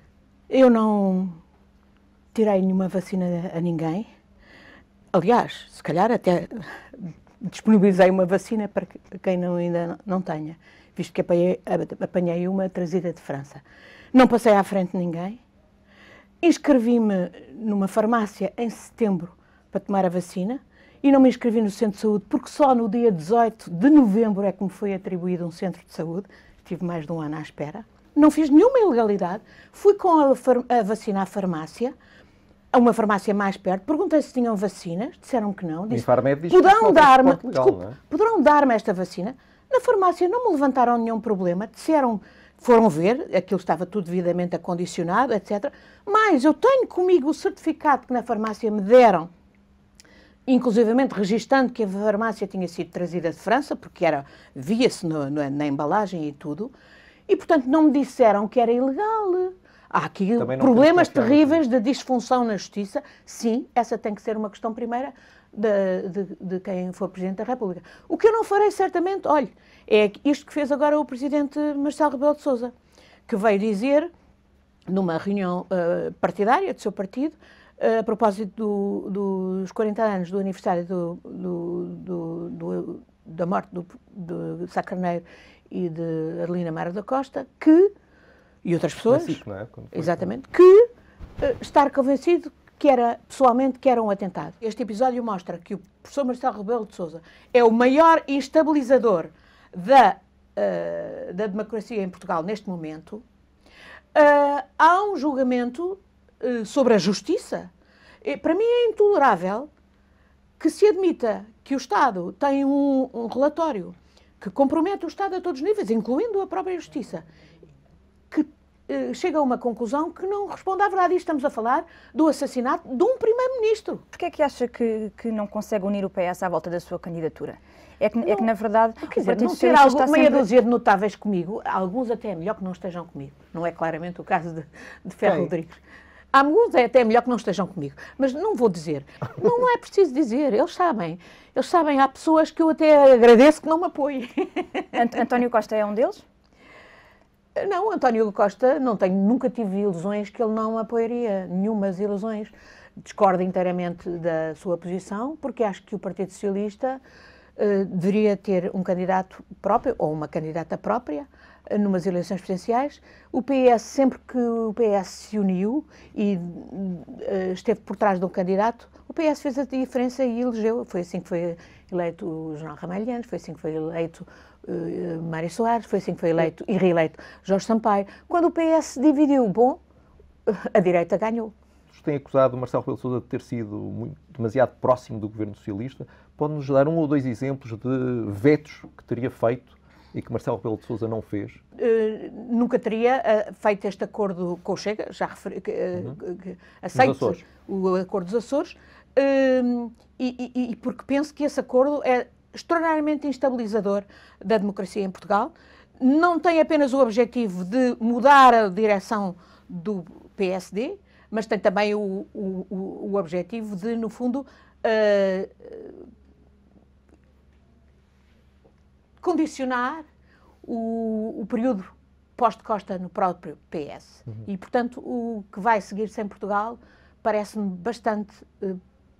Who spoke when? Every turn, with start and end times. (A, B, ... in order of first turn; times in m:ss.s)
0:00.5-0:01.4 A
0:02.3-0:04.1 A
0:05.1-0:13.6 A
0:14.1-0:15.4 A
0:16.4-0:31.9 A
0:32.7-0:49.3 A
0:35.9-0:38.0 B
0:50.5-0:56.7 A
0:57.3-1:12.7 A
1:00.4-1:01.6 B
1:13.3-1:14.1 A
1:14.9-1:27.9 A
1:28.6-1:29.4 A
1:29.1-1:30.3 B
1:29.9-1:30.9 A
1:31.4-1:43.2 A
1:44.2-1:47.7 A
1:48.2-1:49.7 A
1:50.6-1:57.2 A
1:58.3-2:04.0 A
2:04.1-2:10.5 C
2:09.0-2:15.8 A
2:15.2-2:15.5 B
2:16.3-2:25.0 A
2:24.9-2:26.2 C
2:27.6-2:37.0 A
2:37.6-2:59.8 A
3:00.5-3:01.5 A
3:01.9-3:11.6 B
3:11.8-3:36.0 A
3:17.0-3:17.4 B
3:39.2-3:40.0 A
3:40.6-3:48.8 A